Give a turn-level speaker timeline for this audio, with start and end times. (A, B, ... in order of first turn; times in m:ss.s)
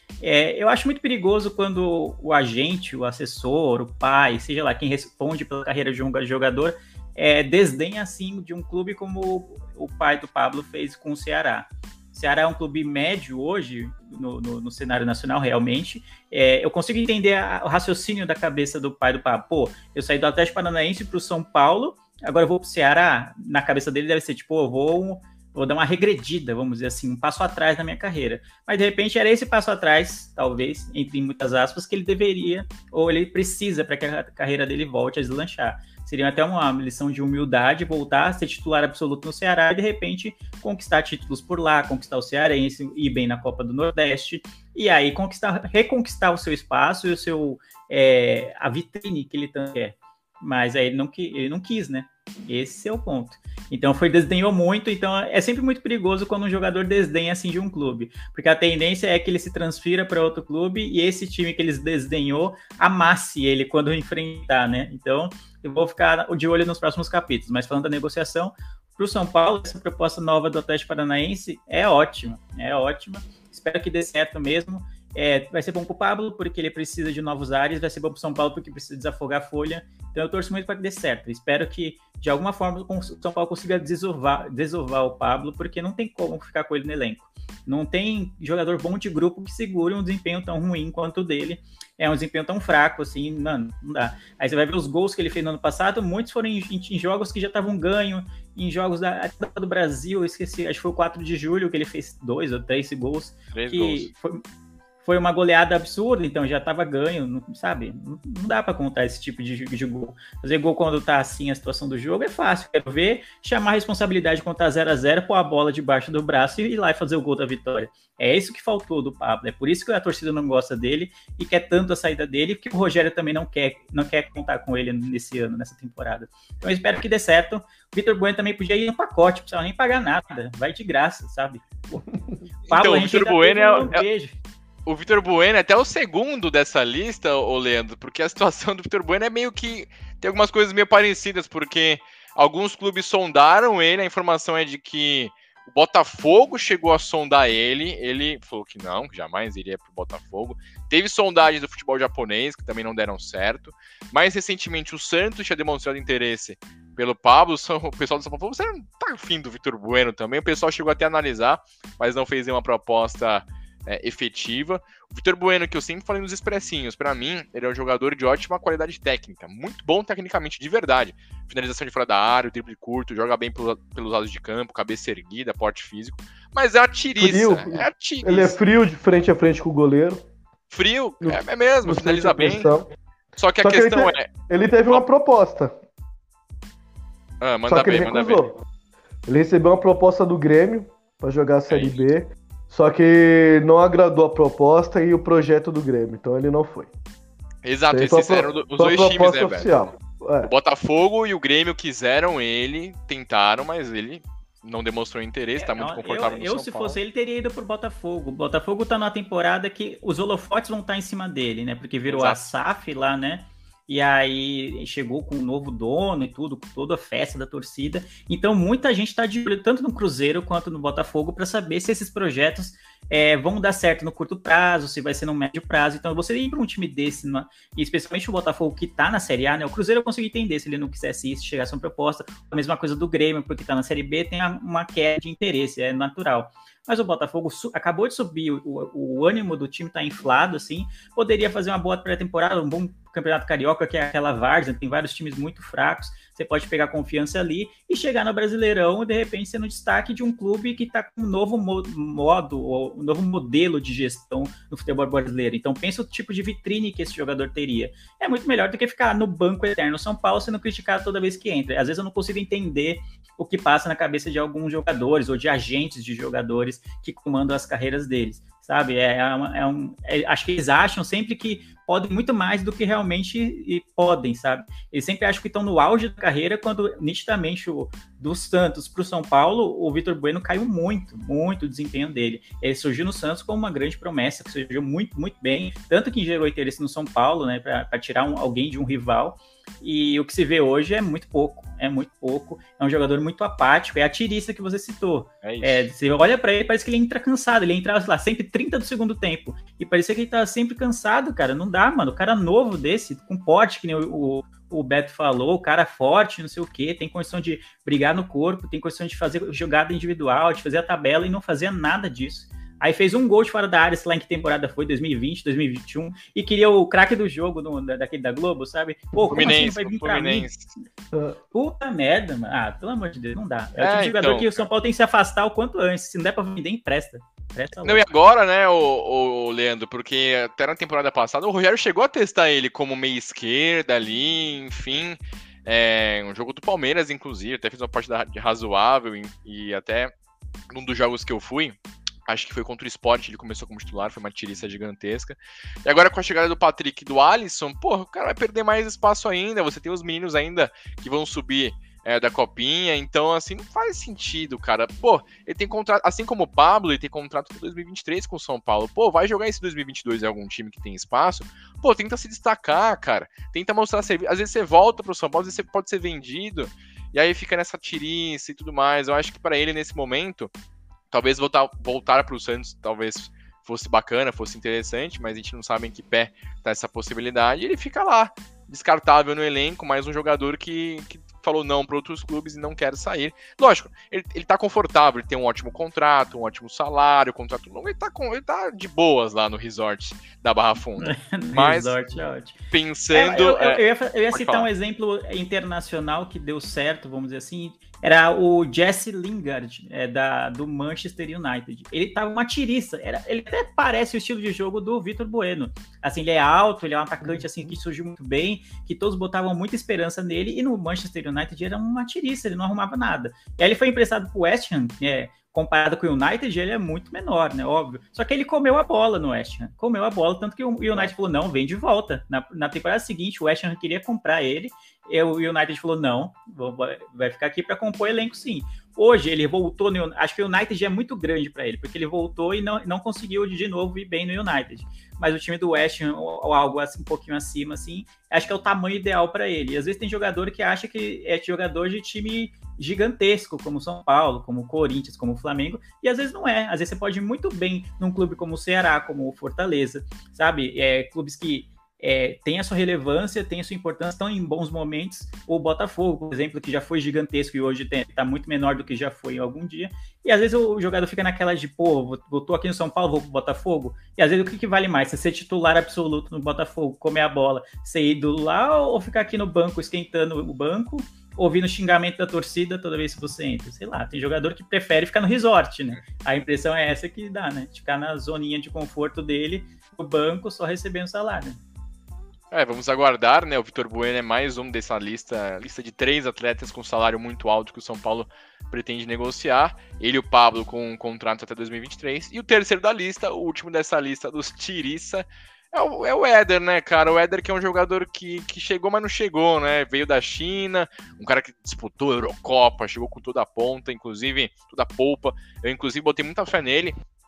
0:00.2-1:44.4 A
1:43.5-1:44.1 B
1:45.0-2:12.0 A
2:12.7-2:14.4 A
2:12.7-2:14.1 B
2:14.9-2:58.6 B
2:57.2-3:00.2 C
3:00.7-3:02.7 B
3:01.2-3:02.9 C
3:03.4-3:04.3 B
3:03.6-3:05.7 C
3:07.4-3:08.4 B
3:07.7-3:08.5 C
3:09.3-3:16.9 C
3:11.7-3:12.0 B
3:17.6-3:19.8 B
3:17.9-3:20.5 C
3:20.4-3:27.0 B
3:25.6-5:20.5 A
3:32.1-3:32.4 B
4:55.4-4:55.9 B
5:19.3-5:20.7 B
5:21.5-5:28.1 A
5:23.8-5:24.6 B
5:27.8-5:40.1 B
5:40.7-6:10.5 B
6:11.1-6:32.0 B
6:31.0-6:32.6 A
6:32.7-6:34.7 B
6:33.1-8:01.6 A
8:02.5-8:27.0 B